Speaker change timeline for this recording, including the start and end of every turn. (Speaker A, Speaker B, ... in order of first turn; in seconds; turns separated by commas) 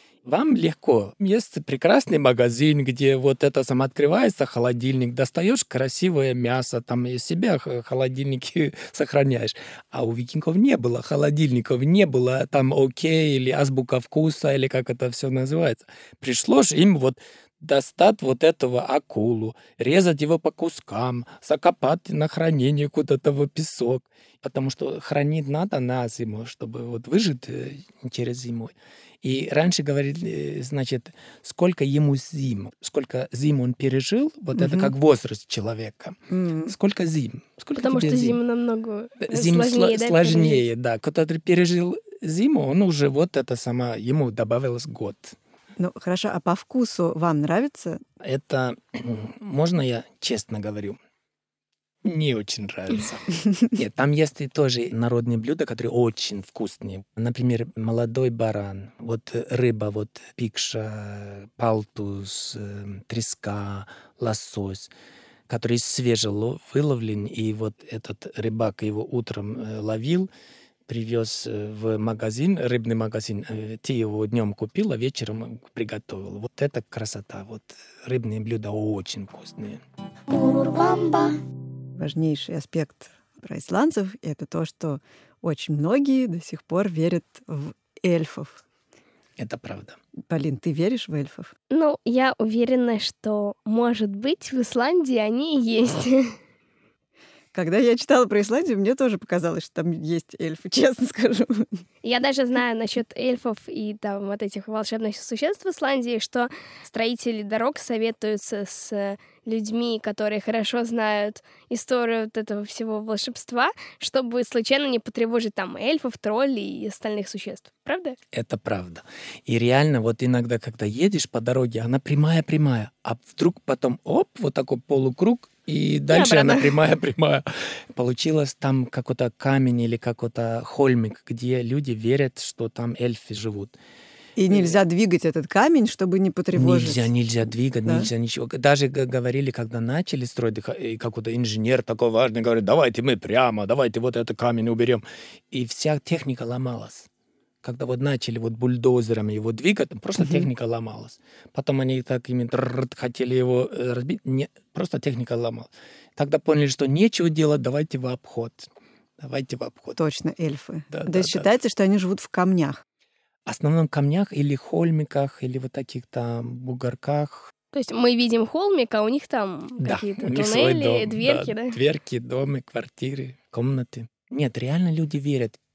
Speaker A: 0.2-38.4, Speaker B: 34.5-34.9, Speaker B: 36.3-36.7, Speaker C: 37.8-40.6, Speaker A: 39.2-45.4, Speaker B: 45.8-48.0, Speaker A: 48.2-51.0, Speaker A: 52.0-64.9, Speaker A: 65.5-70.3, Speaker A: 70.9-79.8, Speaker B: 82.0-88.6, Speaker A: 89.4-90.0, Speaker B: 90.2-91.5, Speaker C: 91.7-96.3, Speaker B: 97.5-101.8, Speaker C: 102.0-118.2, Speaker A: 118.3-133.7, Speaker C: 126.1-126.7, Speaker B: 134.3-137.1, Speaker A: 134.5-134.8, Speaker A: 136.5-147.1, Speaker A: 147.6-160.0, Speaker B: 150.2-150.5, Speaker B: 160.0-162.8, Speaker A: 160.9-161.5, Speaker A: 163.4-167.5, Speaker C: 167.7-171.8, Speaker A: 169.8-175.6